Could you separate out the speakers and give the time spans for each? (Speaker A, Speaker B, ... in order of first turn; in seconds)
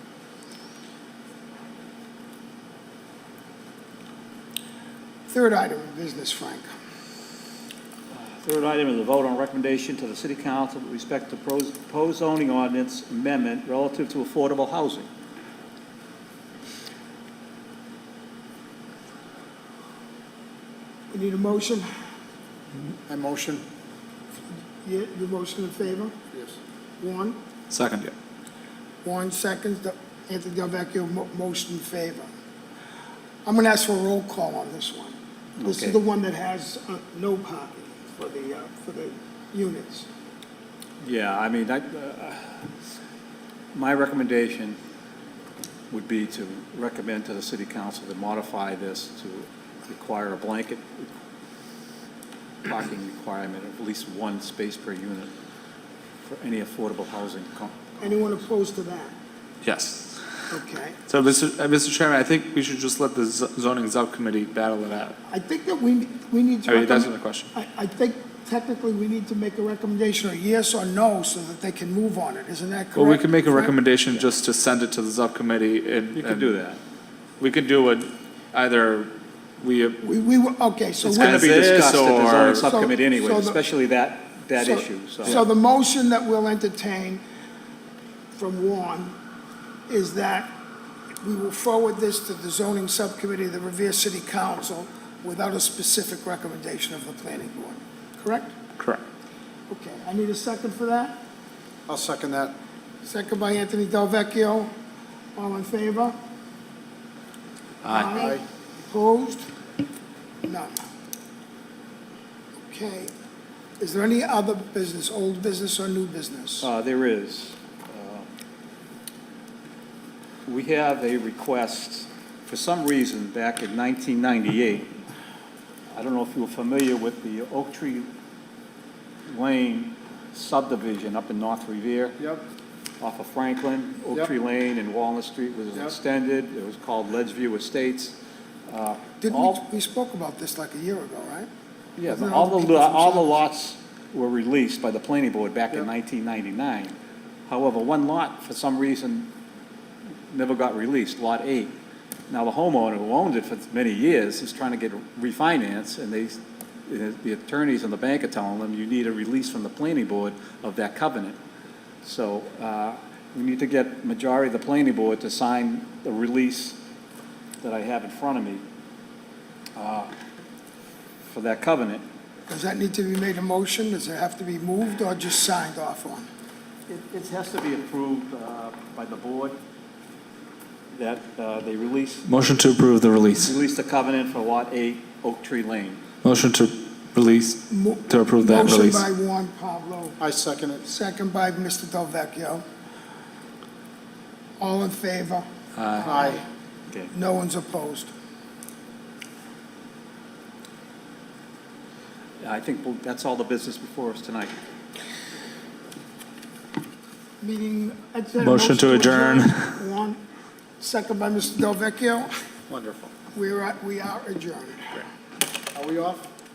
Speaker A: 5.3-6.7, 21.1-21.9, 24.8-26.2, 27.0-27.4, 29.0-32.3, 33.5-40.1, 58.0-59.1, 60.5-61.0, 65.3-73.8, 80.0-81.5, 82.6-83.6, 84.6-87.2, 88.3-89.2, 89.9-90.6, 91.2-98.5, 99.7-101.2, 103.0-104.7, 105.4-106.2, 107.9-109.5, 110.5-110.7, 112.7-113.1, 113.8-116.7, 139.2-141.5, 142.1-143.4, 172.5-176.3, 187.7-190.2, 190.8-192.6, 194.6-196.4, 197.1-198.1, 207.4-210.2, 210.8-212.3, 213.3-215.1
Speaker B: 8.1-15.1, 35.6-36.0, 41.0-42.6, 43.7-44.8, 45.9-51.1, 52.6-55.3, 56.3-58.0, 76.1-76.8, 81.1-85.4, 116.6-118.3, 120.5-124.9, 125.9-128.1, 129.3-132.2, 133.0-138.2, 138.7-139.6, 142.0-147.0, 147.5-149.3, 150.3-151.8, 152.3-161.4, 162.0-166.8, 167.6-168.6, 169.8-170.1, 171.3-172.0, 176.9-179.6, 180.9-182.2, 183.4-186.0, 202.4-204.5
Speaker C: 23.1-23.6, 101.9-102.5, 108.2-108.4, 190.2-190.8, 196.1-196.4, 212.7-213.1, 215.7-216.3
Speaker D: 27.7-28.1, 59.6-60.5, 61.1-65.2, 66.7-67.5, 73.0-76.5, 77.4-80.0, 81.0-82.7, 98.8-99.0, 107.8-108.2, 182.3-183.5, 186.2-189.1, 195.8-196.1, 208.4-209.8